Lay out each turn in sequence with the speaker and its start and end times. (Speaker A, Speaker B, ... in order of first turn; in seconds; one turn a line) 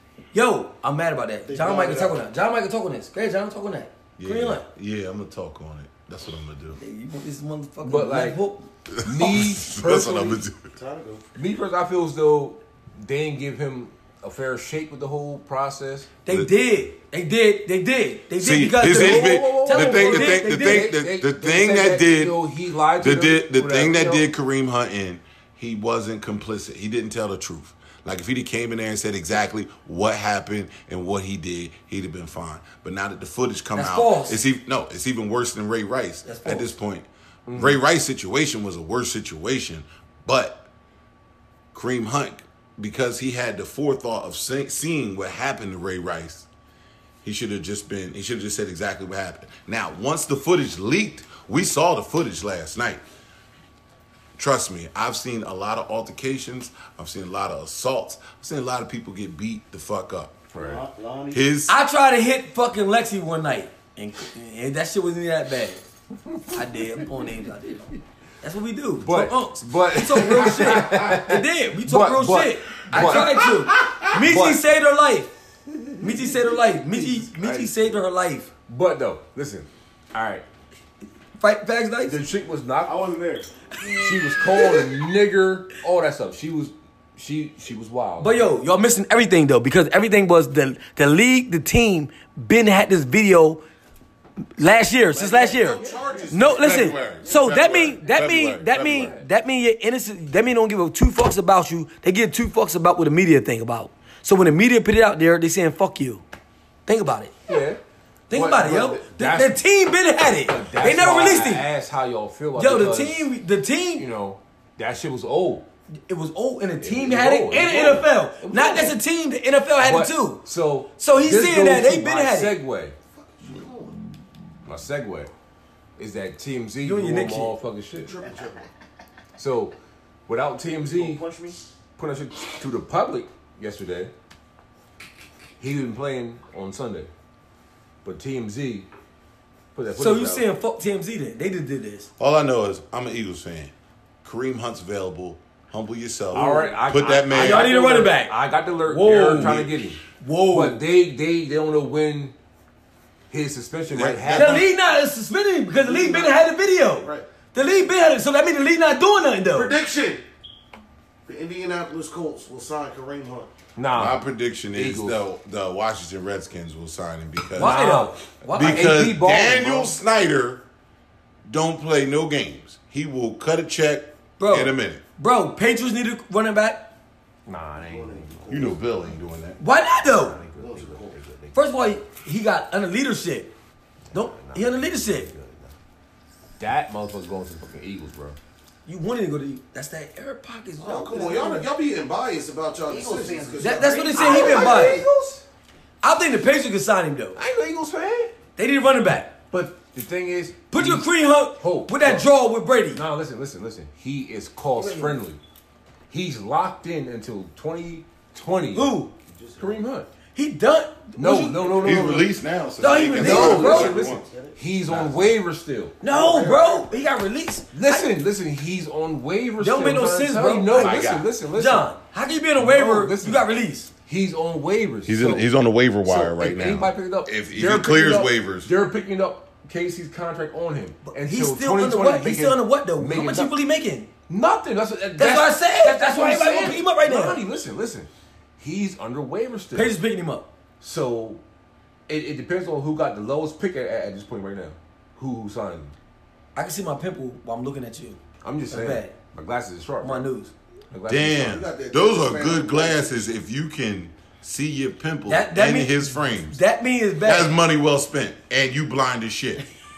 Speaker A: 0.3-4.7
Speaker B: 1.5-2.2
Speaker C: 4.2-6.8
Speaker A: 6.8-8.7
Speaker D: 7.8-8.4
Speaker C: 8.9-10.7
Speaker D: 9.0-10.5
Speaker B: 10.7-11.2
Speaker D: 11.4-16.1
Speaker A: 16.3-20.9
Speaker C: 18.4-22.4
Speaker D: 18.8-24.3
Speaker C: 23.0-40.7
Speaker A: 33.8-34.4
Speaker A: 36.2-36.7
Speaker D: 37.5-37.8
Speaker C: 41.7-46.5
Speaker C: 47.2-53.0
Speaker C: 54.4-60.4
Speaker D: 60.5-60.9
Speaker E: 60.6-61.4
Speaker C: 61.3-61.8
Speaker A: 61.7-65.8
Speaker A: 66.5-75.3
Speaker D: 69.0-74.6
Speaker C: 72.9-74.0
Speaker A: 76.0-78.5
Speaker D: 76.0-78.0
Speaker D: 78.7-80.5
Speaker A: 81.4-82.2
Speaker D: 82.1-83.0
Speaker E: 82.8-83.5
Speaker A: 83.8-84.9
Speaker D: 83.9-88.5
Speaker A: 88.2-93.6
Speaker A: 94.6-106.2
Speaker B: 95.1-96.8
Speaker D: 95.8-96.3
Speaker C: 96.5-99.1
Speaker D: 98.8-99.3
Speaker A: 106.9-107.4
Speaker D: 107.5-107.8
Speaker A: 108.3-111.7
Speaker D: 108.3-109.6
Speaker D: 110.5-113.3
Speaker A: 112.5-114.1
Speaker D: 114.0-115.7
Speaker A: 116.1-120.4
Speaker D: 116.8-119.0
Speaker D: 119.8-123.0
Speaker A: 121.0-122.6
Speaker B: 123.1-124.0
Speaker D: 124.7-125.3
Speaker D: 126.0-128.2
Speaker A: 126.8-127.5
Speaker B: 128.0-128.7
Speaker D: 129.4-129.8
Speaker D: 130.3-131.2
Speaker E: 130.9-131.6
Speaker D: 132.0-134.1
Speaker D: 135.6-137.1
Speaker D: 138.0-138.9
Speaker D: 139.7-140.5
Speaker A: 139.9-142.1
Speaker C: 142.2-143.7
Speaker C: 144.2-147.7
Speaker D: 146.3-150.0
Speaker A: 146.3-146.7
Speaker A: 147.3-148.3
Speaker A: 148.9-149.7
Speaker C: 149.3-149.8
Speaker A: 150.2-150.8
Speaker D: 150.5-152.3
Speaker D: 153.3-154.7
Speaker C: 153.9-154.7
Speaker A: 154.3-159.8
Speaker B: 155.8-156.4
Speaker B: 157.0-157.3
Speaker B: 159.5-160.2
Speaker B: 161.3-163.5
Speaker D: 163.8-164.2
Speaker C: 163.9-167.8
Speaker D: 164.7-165.2
Speaker A: 167.6-168.9
Speaker D: 167.6-169.9
Speaker C: 168.5-170.6
Speaker C: 171.5-175.0
Speaker A: 174.4-176.9
Speaker D: 177.5-178.5
Speaker B: 177.8-178.8
Speaker C: 178.5-179.6
Speaker A: 179.6-180.4
Speaker D: 180.0-181.7
Speaker B: 180.5-181.2
Speaker A: 181.5-183.5
Speaker D: 184.1-185.7
Speaker A: 184.1-185.3
Speaker D: 186.6-188.4
Speaker A: 188.9-191.6
Speaker B: 190.8-194.9
Speaker E: 190.9-191.6
Speaker E: 192.9-195.4
Speaker A: 193.6-195.0
Speaker D: 194.2-195.4
Speaker A: 196.0-197.4
Speaker D: 197.4-198.3
Speaker A: 198.6-199.4
Speaker D: 199.5-202.3
Speaker A: 200.7-203.0
Speaker D: 202.9-205.4
Speaker A: 204.8-205.2
Speaker D: 206.1-209.0
Speaker A: 208.7-209.1
Speaker B: 209.3-209.8
Speaker D: 209.6-210.1
Speaker A: 210.3-212.2
Speaker D: 211.2-212.3
Speaker C: 211.8-214.3
Speaker A: 212.8-214.0
Speaker D: 213.2-216.0
Speaker B: 213.4-215.3
Speaker A: 216.0-218.1
Speaker B: 216.1-217.0
Speaker D: 217.7-221.9
Speaker A: 219.6-223.9
Speaker C: 220.7-221.3
Speaker D: 222.6-223.5
Speaker D: 224.1-225.5
Speaker C: 225.1-228.7
Speaker D: 226.1-233.5
Speaker A: 231.1-234.1
Speaker D: 234.3-240.0
Speaker A: 235.2-237.4
Speaker A: 239.7-240.5
Speaker D: 240.8-241.4
Speaker D: 242.1-245.9
Speaker A: 246.6-249.2
Speaker D: 248.4-250.3
Speaker A: 250.0-250.5
Speaker D: 250.9-251.6
Speaker C: 251.1-256.6
Speaker B: 251.4-253.3
Speaker A: 255.3-257.6
Speaker C: 257.2-259.6